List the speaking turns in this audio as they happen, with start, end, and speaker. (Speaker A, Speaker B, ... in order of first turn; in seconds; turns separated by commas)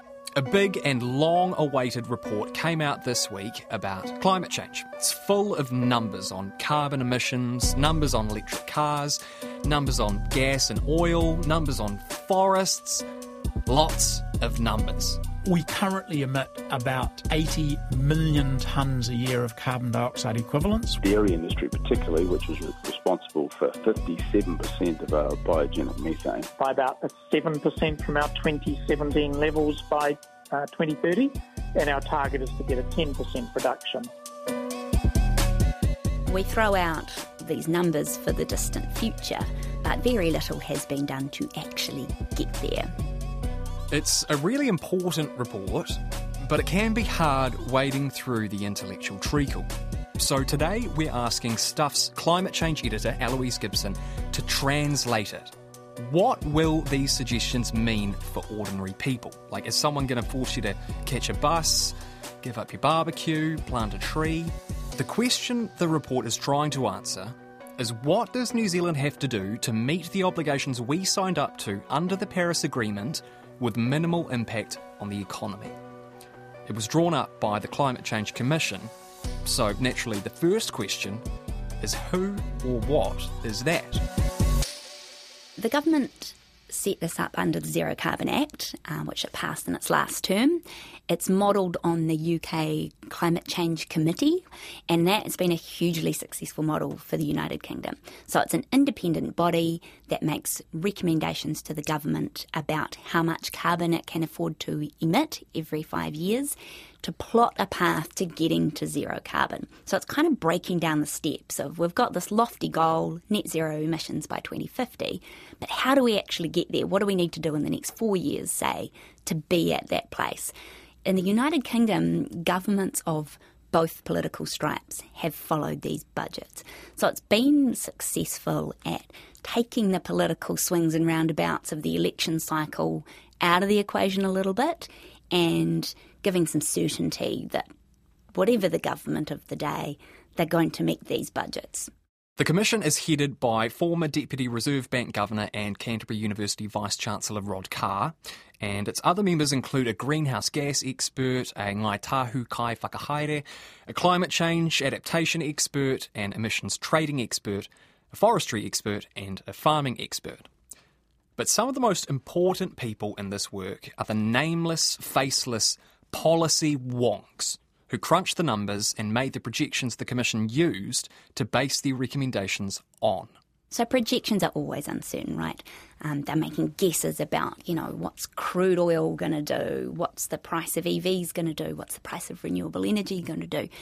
Speaker A: 0.3-13.0, Speaker A: 13.7-15.2, Speaker B: 15.4-21.0, Speaker C: 21.0-26.5, Speaker D: 26.6-34.1, Speaker E: 36.3-42.9, Speaker A: 43.9-75.8, Speaker A: 76.7-78.9, Speaker A: 79.4-81.2, Speaker A: 81.8-84.0, Speaker E: 85.6-120.5, Speaker E: 121.0-137.7, Speaker E: 138.3-141.9, Speaker A: 142.4-160.5, Speaker A: 161.4-173.3, Speaker E: 173.7-183.7